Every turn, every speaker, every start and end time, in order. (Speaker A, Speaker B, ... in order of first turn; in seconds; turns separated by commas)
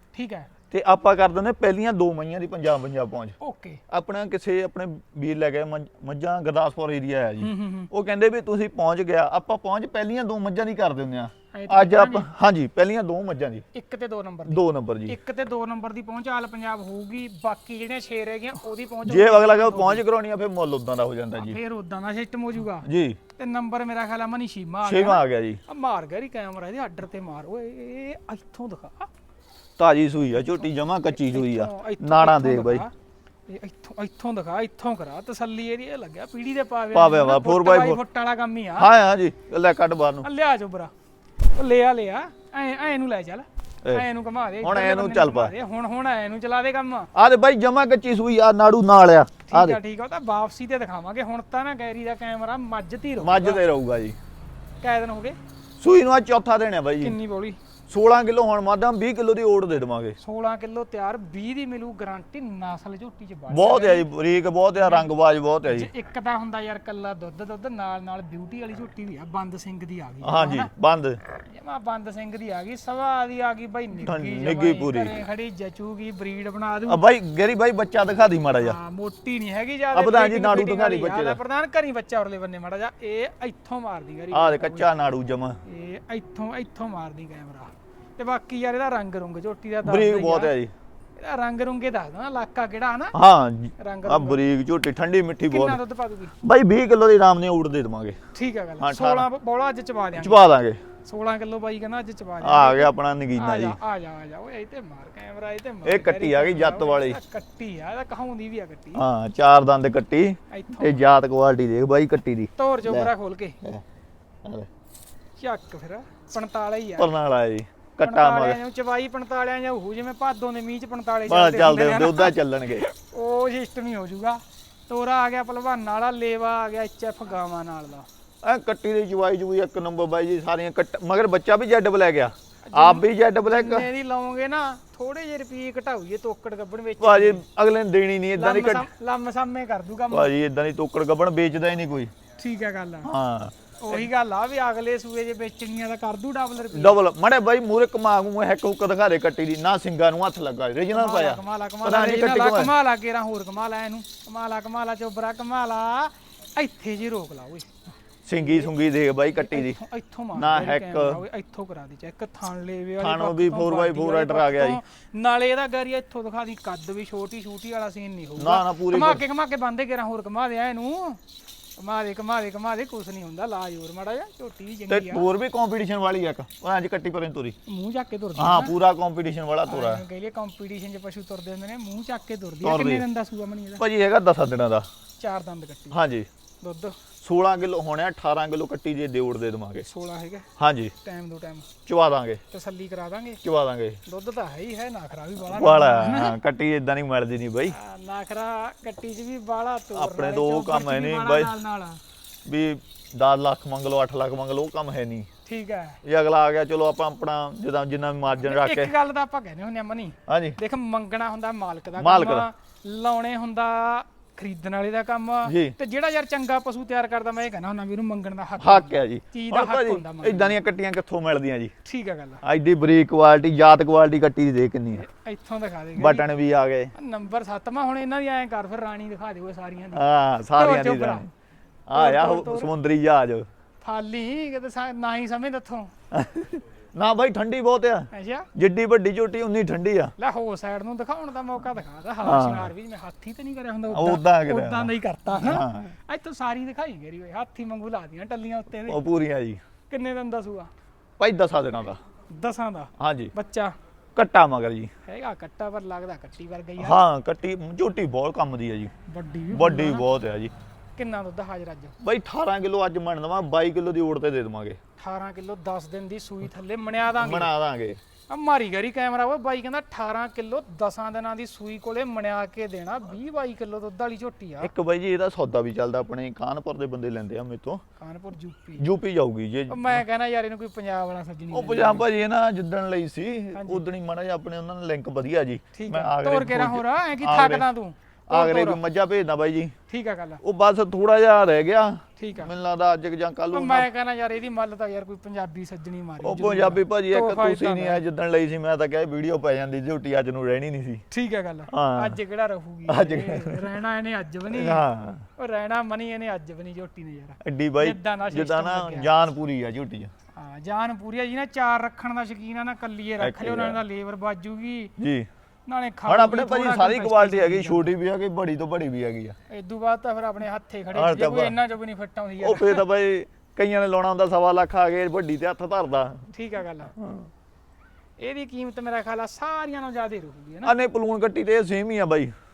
Speaker A: 0.1-0.5, Speaker B: 0.7-3.4, Speaker A: 3.4-3.8, Speaker B: 3.9-13.7, Speaker A: 7.4-7.9, Speaker A: 11.5-12.3, Speaker A: 13.7-20.0, Speaker B: 14.5-15.2, Speaker B: 19.1-21.6, Speaker A: 21.4-29.1, Speaker B: 22.8-23.2, Speaker B: 24.8-25.6, Speaker B: 29.8-32.9, Speaker A: 31.1-32.9, Speaker A: 33.5-38.9, Speaker B: 36.9-38.0, Speaker B: 38.8-40.3, Speaker A: 40.2-40.9, Speaker A: 41.5-47.1, Speaker B: 44.6-45.5, Speaker B: 47.1-49.8, Speaker A: 49.5-53.6, Speaker B: 53.2-54.2, Speaker A: 54.8-55.4, Speaker B: 55.8-57.2, Speaker A: 57.0-57.6, Speaker B: 57.9-60.2, Speaker A: 60.2-64.1, Speaker B: 63.5-65.9, Speaker A: 64.8-65.1, Speaker A: 65.7-70.7, Speaker B: 70.2-71.2, Speaker A: 71.4-77.0, Speaker B: 74.0-75.2, Speaker B: 76.9-78.8, Speaker A: 78.6-84.9, Speaker B: 79.9-81.4, Speaker B: 84.3-85.6, Speaker A: 85.7-90.5, Speaker B: 89.8-90.7, Speaker A: 91.2-93.2, Speaker B: 93.1-95.8, Speaker A: 93.8-94.4, Speaker A: 95.5-96.3, Speaker B: 96.4-98.2, Speaker A: 98.3-100.4, Speaker B: 98.8-99.3, Speaker B: 100.2-100.8, Speaker A: 101.0-109.0, Speaker B: 102.4-103.8, Speaker B: 105.8-107.2, Speaker B: 109.0-113.8, Speaker A: 110.5-111.1, Speaker A: 112.6-113.6, Speaker B: 114.4-114.7, Speaker A: 115.4-117.1, Speaker B: 117.0-118.6, Speaker A: 118.0-128.1, Speaker B: 121.3-122.9, Speaker B: 128.4-133.9, Speaker A: 132.7-137.4, Speaker B: 137.0-138.9, Speaker A: 138.4-140.3, Speaker B: 140.1-142.1, Speaker A: 142.4-143.1, Speaker B: 143.0-144.1, Speaker A: 143.8-147.0, Speaker B: 146.7-152.7, Speaker A: 150.9-157.7, Speaker B: 158.3-159.8, Speaker A: 158.4-158.7, Speaker A: 159.3-171.2, Speaker B: 160.3-161.2, Speaker B: 163.0-164.8, Speaker B: 168.4-169.2, Speaker A: 171.8-175.3, Speaker B: 174.9-177.6, Speaker A: 177.7-178.8, Speaker B: 178.4-180.0, Speaker A: 179.7-183.8, Speaker B: 182.6-183.1, Speaker B: 183.8-184.9, Speaker A: 185.2-186.0, Speaker B: 185.9-186.3, Speaker A: 186.6-187.0, Speaker B: 187.2-189.9, Speaker A: 189.8-190.5, Speaker B: 190.6-190.9, Speaker A: 191.0-191.7, Speaker B: 191.9-192.4, Speaker A: 192.5-193.4, Speaker B: 193.4-194.0, Speaker A: 194.1-196.4, Speaker B: 195.4-197.8, Speaker A: 197.7-202.0, Speaker B: 199.9-201.5, Speaker B: 202.5-205.3, Speaker A: 205.5-206.0, Speaker B: 206.0-208.9, Speaker A: 208.4-220.6, Speaker B: 210.3-210.6, Speaker B: 212.0-212.5, Speaker B: 215.4-215.8, Speaker B: 218.6-221.7, Speaker A: 221.8-222.4, Speaker B: 222.4-225.1, Speaker A: 225.0-226.3, Speaker B: 226.0-226.9, Speaker A: 226.9-231.2, Speaker B: 229.9-231.3, Speaker B: 231.9-233.5, Speaker A: 231.9-232.7, Speaker A: 233.8-235.9, Speaker B: 236.1-240.1, Speaker A: 238.1-238.5, Speaker A: 240.2-249.0, Speaker B: 242.2-242.7, Speaker B: 243.9-245.9, Speaker B: 248.9-249.6, Speaker A: 249.9-250.7, Speaker B: 251.2-252.0, Speaker A: 252.3-253.8, Speaker B: 253.0-253.3, Speaker B: 254.2-254.9, Speaker A: 255.1-257.0, Speaker B: 256.8-258.9, Speaker A: 259.1-260.1, Speaker B: 259.5-260.5, Speaker A: 261.0-261.9, Speaker B: 262.0-264.8, Speaker A: 265.0-267.5, Speaker B: 267.1-268.0, Speaker A: 268.3-274.7, Speaker B: 274.6-277.8, Speaker A: 278.0-278.9, Speaker B: 278.8-280.0, Speaker A: 279.7-282.1, Speaker B: 281.5-287.7, Speaker A: 283.5-283.8, Speaker A: 285.7-288.8, Speaker B: 288.3-289.8, Speaker A: 289.9-290.4, Speaker B: 290.4-293.9, Speaker A: 292.2-292.5, Speaker A: 293.5-298.0, Speaker B: 296.2-301.0, Speaker A: 301.1-304.9, Speaker B: 301.7-302.2, Speaker B: 302.9-303.7, Speaker B: 304.5-305.3, Speaker A: 305.4-309.1, Speaker B: 307.4-310.1, Speaker A: 310.4-314.9, Speaker B: 313.2-313.8, Speaker B: 315.0-315.3, Speaker A: 315.7-317.9, Speaker B: 316.1-319.4, Speaker A: 319.5-322.9, Speaker B: 320.9-321.6, Speaker B: 322.4-326.3, Speaker A: 326.3-326.9, Speaker B: 327.0-327.3, Speaker A: 328.2-330.7, Speaker B: 330.6-332.3